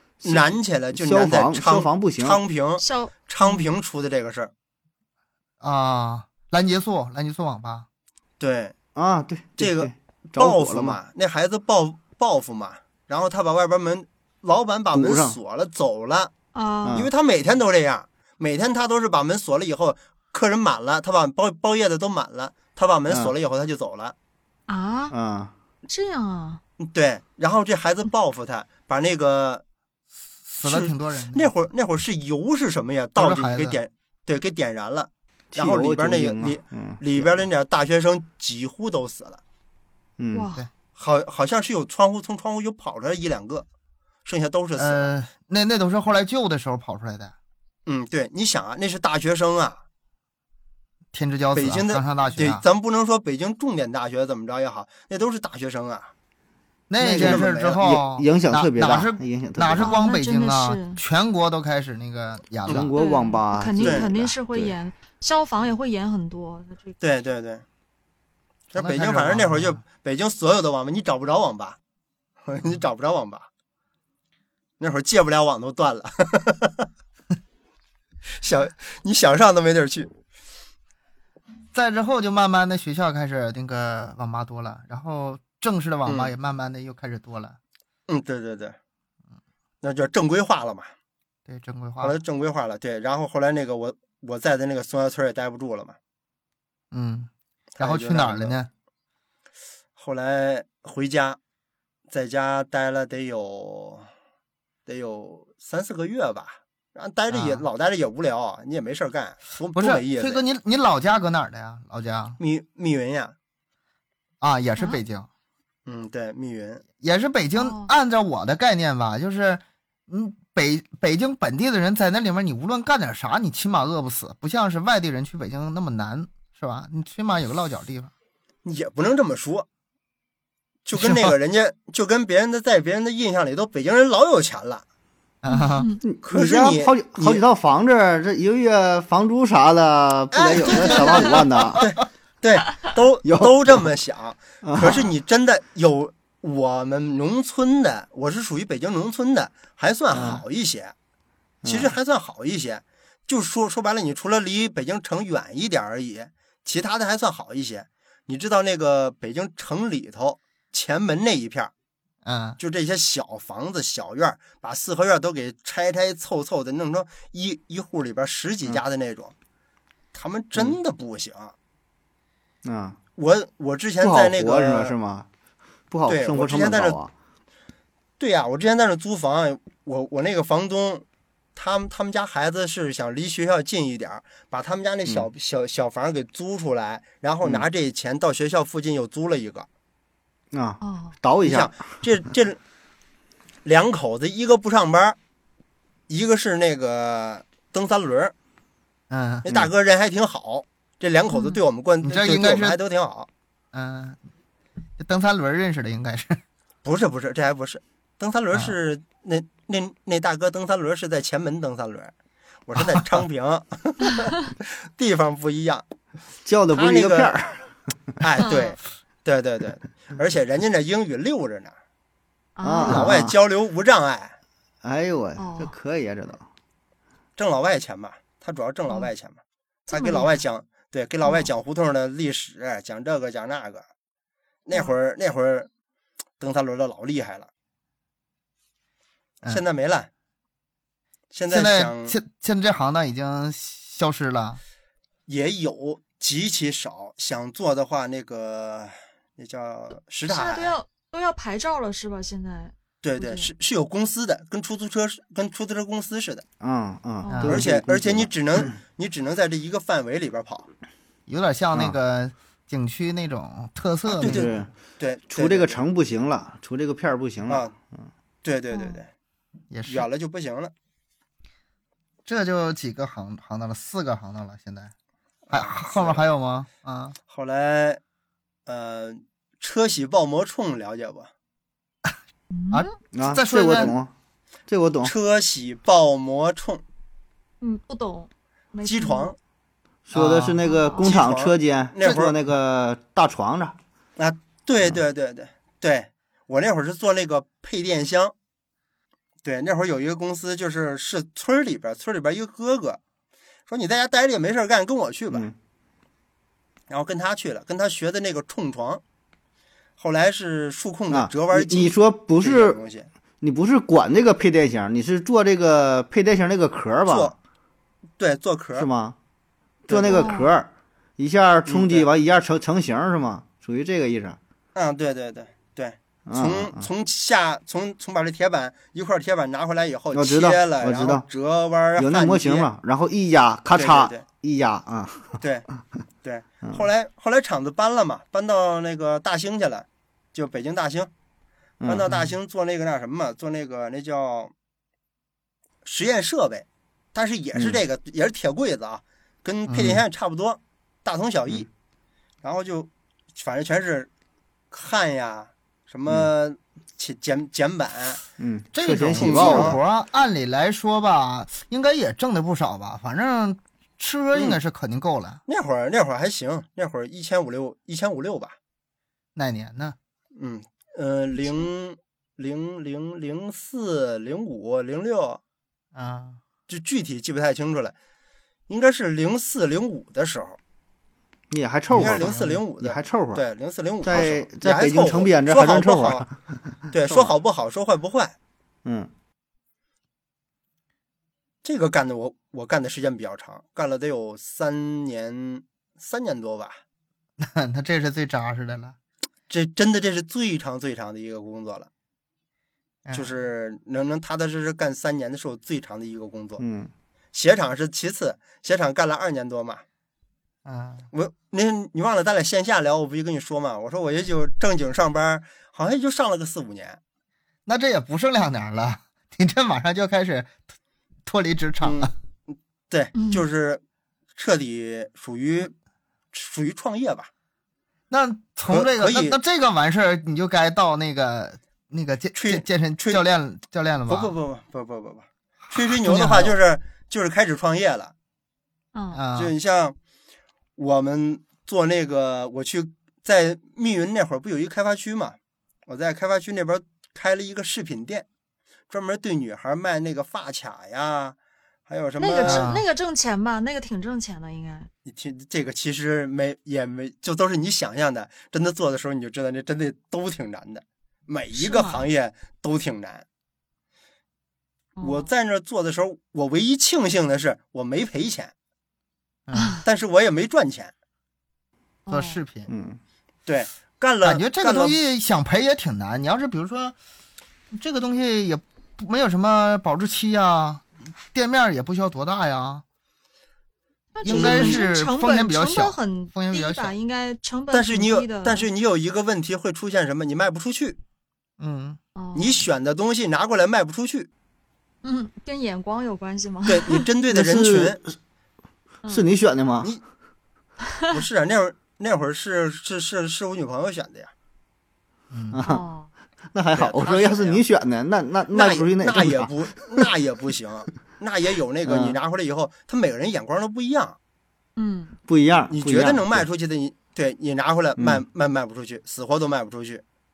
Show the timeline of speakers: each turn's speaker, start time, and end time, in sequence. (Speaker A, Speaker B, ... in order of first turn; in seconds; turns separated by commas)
Speaker A: 0.2-2.4, Speaker B: 0.2-4.5, Speaker C: 2.8-3.7, Speaker D: 5.6-7.9, Speaker B: 8.4-8.8, Speaker A: 8.9-11.0, Speaker B: 9.6-16.3, Speaker A: 14.9-15.4, Speaker C: 16.5-17.0, Speaker A: 16.8-17.1, Speaker B: 16.9-24.1, Speaker C: 24.7-25.1, Speaker A: 25.1-25.5, Speaker C: 25.9-26.6, Speaker B: 26.8-29.6, Speaker D: 30.4-31.5, Speaker B: 30.6-39.4, Speaker D: 33.2-33.8, Speaker A: 35.5-37.5, Speaker A: 40.2-40.5, Speaker C: 40.3-40.7, Speaker B: 41.0-43.7, Speaker B: 44.2-45.1, Speaker D: 44.8-47.4, Speaker B: 47.9-49.8, Speaker D: 51.1-52.6, Speaker B: 51.5-56.1, Speaker D: 56.9-62.9, Speaker A: 57.0-60.0, Speaker B: 57.1-57.9, Speaker C: 59.8-61.0, Speaker A: 62.7-64.8, Speaker C: 63.0-67.0, Speaker B: 63.8-64.1, Speaker B: 67.0-67.6, Speaker B: 68.7-71.8, Speaker D: 68.8-69.8, Speaker B: 72.5-73.5, Speaker B: 74.8-76.9, Speaker B: 78.3-80.1, Speaker D: 81.7-87.6, Speaker B: 86.1-86.3, Speaker B: 88.1-88.8, Speaker B: 89.8-90.9, Speaker D: 91.5-92.2, Speaker B: 92.0-96.0, Speaker D: 96.9-98.7, Speaker B: 97.8-98.6, Speaker B: 100.0-101.4, Speaker B: 102.1-104.1, Speaker B: 104.9-110.4, Speaker D: 107.3-107.6, Speaker D: 109.7-112.4, Speaker B: 112.4-113.3, Speaker D: 114.4-115.3, Speaker B: 115.9-116.8, Speaker D: 117.0-128.1, Speaker C: 117.5-117.9, Speaker B: 128.7-129.7, Speaker B: 130.9-134.8, Speaker D: 131.0-131.4, Speaker D: 135.4-135.9, Speaker C: 135.5-136.0, Speaker A: 136.0-141.8, Speaker B: 136.2-137.4, Speaker B: 140.3-150.9, Speaker A: 143.3-143.8, Speaker A: 144.6-145.1, Speaker A: 150.1-150.4, Speaker A: 151.6-151.9, Speaker B: 151.7-161.7, Speaker D: 162.2-162.6, Speaker B: 162.6-169.3, Speaker B: 170.1-171.5, Speaker A: 172.6-173.0, Speaker B: 173.2-174.9, Speaker A: 174.0-175.3, Speaker A: 175.9-177.1, Speaker B: 176.1-177.0, Speaker B: 178.2-181.1, Speaker B: 181.6-189.7, Speaker A: 190.5-191.8, Speaker C: 190.8-191.2, Speaker B: 191.4-192.6, Speaker B: 193.7-195.2, Speaker B: 196.1-198.3, Speaker D: 199.1-199.6, Speaker B: 199.4-203.3, Speaker C: 201.3-201.6, Speaker D: 202.0-202.8, Speaker D: 203.7-204.2, Speaker D: 205.0-206.4, Speaker B: 206.8-212.1, Speaker B: 212.7-215.8, Speaker A: 216.4-217.7, Speaker B: 216.7-217.4, Speaker B: 218.2-221.8, Speaker C: 218.4-218.8, Speaker C: 222.6-223.1, Speaker A: 222.6-223.4, Speaker B: 222.8-224.4, Speaker A: 224.8-226.5, Speaker C: 225.4-225.7, Speaker B: 227.4-229.4, Speaker C: 229.9-230.4, Speaker B: 229.9-233.8, Speaker C: 231.2-231.5, Speaker B: 234.7-235.7, Speaker B: 236.4-237.5, Speaker B: 239.4-240.1, Speaker B: 241.3-242.2, Speaker D: 241.5-244.6, Speaker B: 245.3-250.8, Speaker C: 250.3-253.5, Speaker B: 253.0-256.4, Speaker A: 256.6-258.8, Speaker C: 257.2-257.6, Speaker D: 257.3-257.6, Speaker B: 257.5-260.7, Speaker D: 261.3-264.5, Speaker B: 264.1-265.8, Speaker A: 264.2-264.7, Speaker A: 265.3-268.1, Speaker B: 267.5-267.7, Speaker B: 268.4-269.1, Speaker C: 268.7-269.0, Speaker D: 269.7-270.1, Speaker B: 269.9-270.7, Speaker D: 272.3-274.9, Speaker B: 275.5-276.2, Speaker D: 275.5-277.2, Speaker B: 277.3-278.0, Speaker B: 278.7-281.3, Speaker C: 282.5-282.9, Speaker D: 282.7-283.9, Speaker A: 283.1-284.1, Speaker A: 284.7-285.1, Speaker B: 285.0-286.8, Speaker C: 287.6-289.3, Speaker B: 288.9-289.4, Speaker A: 290.1-293.8, Speaker D: 290.1-290.6, Speaker C: 290.6-291.1, Speaker B: 291.0-292.4, Speaker B: 294.2-298.3, Speaker B: 299.4-303.0, Speaker B: 303.7-305.5, Speaker B: 306.9-309.0, Speaker B: 310.0-313.1, Speaker A: 311.1-312.8, Speaker A: 313.4-317.3, Speaker B: 317.1-317.4, Speaker B: 318.2-318.9, Speaker A: 318.8-319.2, Speaker B: 319.9-320.4, Speaker A: 319.9-324.4, Speaker C: 320.1-320.5, Speaker B: 321.7-322.1, Speaker B: 324.8-332.7, Speaker A: 326.3-326.9, Speaker A: 330.1-331.2, Speaker A: 332.0-335.4, Speaker B: 333.7-334.2, Speaker B: 335.4-335.7, Speaker B: 336.2-341.1, Speaker A: 341.8-342.1, Speaker B: 341.8-344.5, Speaker B: 345.8-351.7, Speaker A: 347.6-347.8, Speaker D: 349.7-350.0, Speaker B: 352.4-354.1, Speaker B: 354.7-358.2, Speaker A: 358.4-359.8, Speaker D: 358.8-365.4, Speaker B: 359.1-359.8, Speaker B: 364.4-364.6, Speaker B: 365.5-368.6, Speaker D: 369.4-370.0, Speaker B: 370.4-375.4, Speaker D: 375.9-376.4, Speaker B: 376.7-377.9, Speaker B: 378.7-380.6, Speaker A: 381.5-383.4, Speaker B: 381.9-386.3, Speaker D: 382.0-382.5, Speaker A: 384.0-386.6, Speaker B: 386.9-388.4, Speaker A: 388.9-389.1, Speaker B: 391.6-396.8, Speaker D: 397.4-399.0, Speaker B: 399.5-401.9, Speaker D: 403.1-403.3, Speaker B: 403.1-406.6, Speaker A: 406.6-406.9, Speaker B: 407.3-409.8, Speaker D: 410.6-411.1, Speaker B: 411.1-417.0, Speaker D: 417.7-420.6, Speaker D: 421.3-422.1, Speaker B: 421.8-422.1, Speaker B: 422.9-423.8, Speaker C: 423.2-423.4, Speaker B: 424.4-425.7, Speaker B: 426.3-427.3, Speaker D: 428.1-434.3, Speaker B: 428.7-429.4, Speaker B: 432.4-433.2, Speaker B: 434.1-438.1, Speaker D: 435.7-436.6, Speaker C: 438.9-439.2, Speaker D: 439.1-439.6, Speaker B: 439.4-440.0, Speaker B: 440.8-445.4, Speaker B: 445.9-448.3, Speaker B: 448.9-452.7, Speaker C: 452.2-454.9, Speaker D: 452.4-452.8, Speaker B: 455.1-463.2, Speaker C: 461.5-462.1, Speaker C: 465.0-465.3, Speaker B: 465.0-468.5, Speaker D: 469.5-469.8, Speaker C: 469.5-469.8, Speaker B: 469.9-470.9, Speaker C: 472.1-472.4, Speaker D: 472.1-472.7, Speaker A: 472.7-473.0, Speaker B: 473.5-475.0, Speaker D: 474.2-477.0, Speaker D: 477.7-482.8, Speaker C: 484.1-488.6, Speaker D: 484.2-486.9, Speaker B: 484.3-484.9, Speaker B: 487.7-491.0, Speaker D: 491.6-492.0, Speaker C: 492.1-492.6, Speaker B: 492.4-494.3, Speaker C: 495.0-497.0, Speaker B: 496.7-498.0, Speaker A: 497.3-498.2, Speaker C: 499.0-499.3, Speaker A: 499.1-499.9, Speaker B: 501.1-504.3, Speaker D: 505.3-505.6, Speaker A: 505.5-505.9, Speaker C: 505.7-506.1, Speaker A: 506.5-510.1, Speaker B: 506.7-507.6, Speaker B: 508.5-514.2, Speaker A: 511.9-512.2, Speaker C: 514.8-515.2, Speaker A: 515.3-516.5, Speaker B: 515.7-520.0, Speaker A: 518.0-518.2